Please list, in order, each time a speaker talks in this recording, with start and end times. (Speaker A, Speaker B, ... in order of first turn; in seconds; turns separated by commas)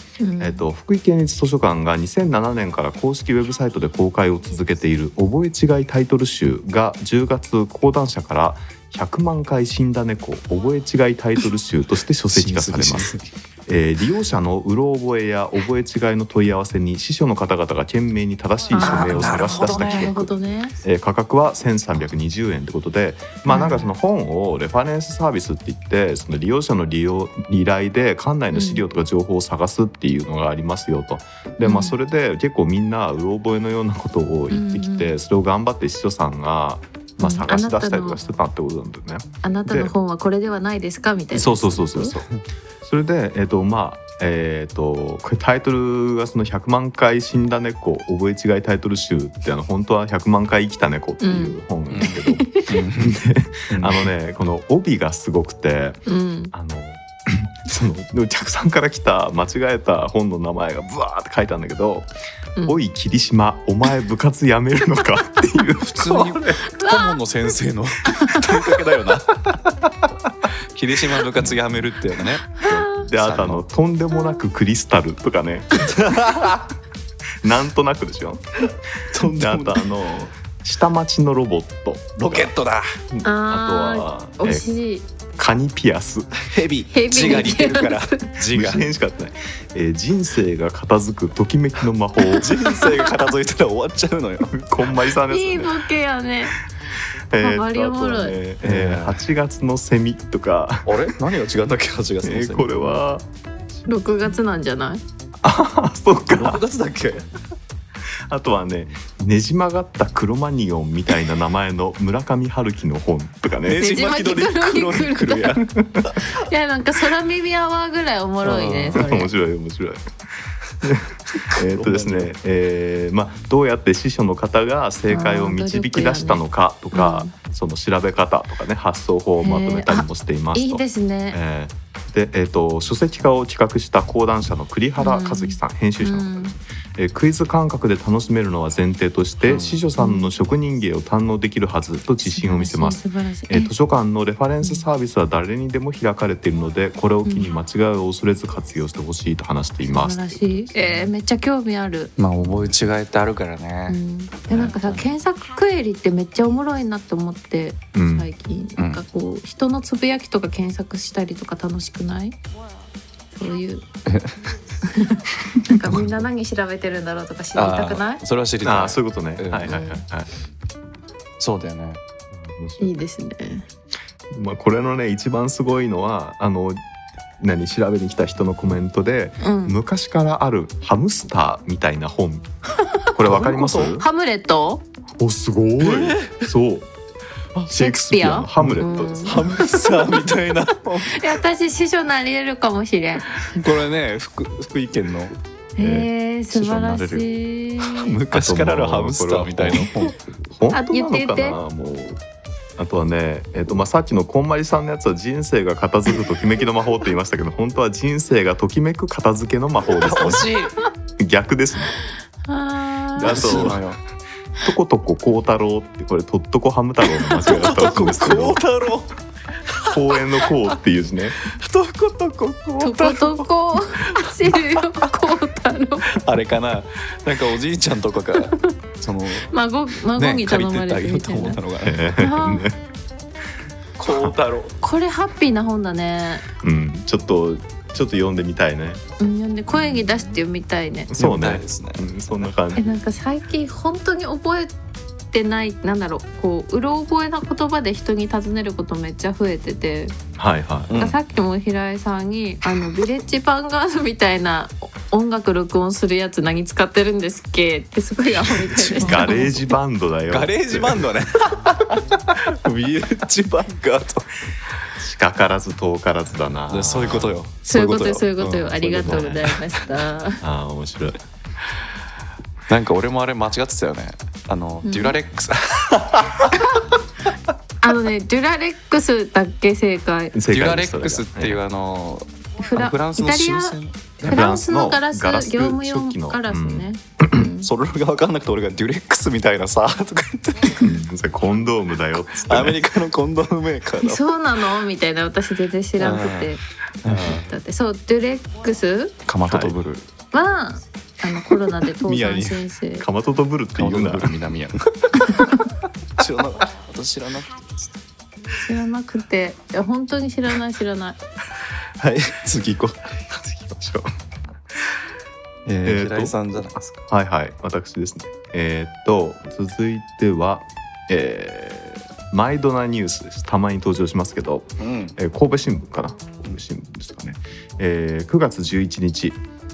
Speaker A: 0.2-0.7, Speaker B: 0.4-13.1, Speaker C: 12.3-13.2, Speaker B: 13.7-39.9, Speaker A: 18.7-20.8, Speaker C: 18.8-20.1, Speaker A: 23.4-23.9, Speaker A: 28.5-28.8, Speaker A: 31.6-31.9, Speaker A: 34.5-35.1, Speaker A: 37.2-38.2, Speaker A: 39.4-42.2, Speaker B: 41.3-42.3, Speaker B: 42.8-56.0, Speaker A: 51.2-51.6, Speaker C: 51.9-54.0, Speaker A: 52.1-52.8, Speaker A: 56.1-56.5, Speaker B: 56.5-62.1, Speaker B: 62.6-66.4, Speaker C: 65.8-69.6, Speaker A: 66.6-67.2, Speaker A: 68.1-68.4, Speaker C: 70.7-73.6, Speaker A: 72.6-73.1, Speaker B: 72.6-76.5, Speaker C: 75.9-76.6, Speaker B: 77.4-82.5, Speaker C: 79.1-80.2, Speaker C: 82.2-82.8, Speaker B: 83.1-84.7, Speaker A: 83.2-85.0, Speaker B: 85.3-86.4, Speaker C: 86.4-88.9, Speaker A: 86.9-88.3, Speaker B: 88.4-92.6, Speaker C: 92.3-94.5, Speaker A: 92.6-93.1, Speaker B: 94.5-95.8, Speaker A: 95.2-96.6, Speaker B: 97.3-101.2, Speaker A: 97.4-98.4, Speaker C: 98.6-99.2, Speaker C: 100.8-102.9, Speaker B: 102.2-103.2, Speaker A: 103.9-105.0, Speaker B: 105.4-106.6, Speaker C: 106.3-107.2, Speaker B: 108.3-113.9, Speaker C: 113.6-116.2, Speaker A: 113.8-115.6, Speaker B: 115.7-116.1, Speaker A: 116.2-119.3, Speaker C: 118.4-119.1, Speaker B: 118.9-120.0, Speaker B: 120.8-150.7, Speaker C: 121.3-122.3, Speaker A: 125.1-127.3, Speaker A: 129.4-131.4, Speaker A: 135.0-136.5, Speaker C: 139.4-139.8, Speaker A: 140.0-140.3, Speaker A: 142.2-143.7, Speaker A: 147.2-147.5, Speaker A: 149.9-152.1, Speaker C: 152.2-154.0, Speaker B: 152.4-152.8, Speaker A: 153.9-162.4, Speaker C: 154.6-155.1, Speaker B: 157.9-158.3, Speaker C: 158.8-159.0, Speaker A: 163.3-163.8, Speaker C: 164.1-164.4, Speaker A: 164.8-168.2, Speaker C: 167.5-169.9, Speaker B: 168.6-170.3, Speaker C: 171.4-172.0, Speaker B: 172.3-172.9, Speaker A: 172.8-173.7, Speaker B: 174.3-176.8, Speaker B: 177.4-182.5, Speaker A: 179.4-179.8, Speaker B: 183.1-184.1, Speaker C: 183.2-184.0, Speaker A: 183.9-184.8, Speaker B: 185.2-186.9, Speaker C: 185.8-186.4, Speaker B: 187.7-189.7, Speaker A: 187.7-190.2, Speaker C: 188.6-191.4, Speaker A: 191.0-193.5, Speaker C: 193.4-195.3, Speaker A: 195.8-198.2, Speaker C: 196.5-197.2, Speaker C: 197.8-200.2, Speaker B: 198.3-202.2, Speaker A: 200.7-201.6, Speaker B: 202.8-210.6, Speaker C: 210.0-210.8, Speaker B: 211.2-212.0, Speaker A: 212.4-213.7, Speaker C: 213.2-214.0, Speaker B: 213.2-213.9, Speaker B: 214.6-218.6, Speaker C: 217.2-219.1, Speaker C: 219.7-220.5, Speaker B: 219.8-221.4, Speaker C: 221.4-225.1, Speaker A: 222.8-226.2, Speaker C: 226.1-229.5, Speaker A: 229.5-231.6, Speaker C: 230.1-232.0, Speaker B: 231.8-232.8, Speaker A: 232.1-232.7, Speaker C: 234.0-234.8, Speaker B: 234.1-234.3, Speaker A: 234.8-236.4, Speaker B: 236.6-239.0, Speaker A: 239.2-241.1, Speaker B: 241.1-242.9, Speaker C: 241.2-242.4, Speaker A: 242.8-244.7, Speaker A: 245.3-250.1, Speaker B: 250.3-251.0, Speaker C: 250.9-251.2, Speaker A: 250.9-259.5, Speaker C: 258.4-259.7, Speaker B: 259.0-261.1, Speaker C: 260.3-264.3, Speaker B: 265.0-267.4, Speaker C: 266.7-269.8, Speaker A: 267.6-270.4, Speaker B: 268.9-269.5, Speaker B: 270.4-271.2, Speaker C: 272.7-276.5, Speaker A: 274.8-275.2, Speaker A: 277.8-280.4, Speaker B: 280.3-281.6, Speaker C: 280.5-284.5, Speaker A: 282.6-287.7, Speaker B: 284.2-287.4, Speaker C: 287.6-290.9, Speaker B: 290.8-292.8, Speaker C: 292.2-294.2, Speaker A: 294.0-296.6, Speaker C: 296.0-297.4, Speaker B: 297.0-297.5, Speaker A: 297.2-299.1, Speaker C: 299.2-300.1, Speaker B: 299.4-299.8, Speaker A: 300.3-303.1, Speaker C: 301.6-302.6, Speaker B: 303.0-304.4, Speaker C: 303.8-305.5, Speaker A: 305.2-305.6, Speaker C: 306.2-307.9, Speaker A: 308.5-311.2, Speaker C: 312.0-313.1, Speaker B: 313.3-314.1, Speaker C: 315.6-317.0, Speaker B: 315.8-329.4, Speaker C: 324.8-325.1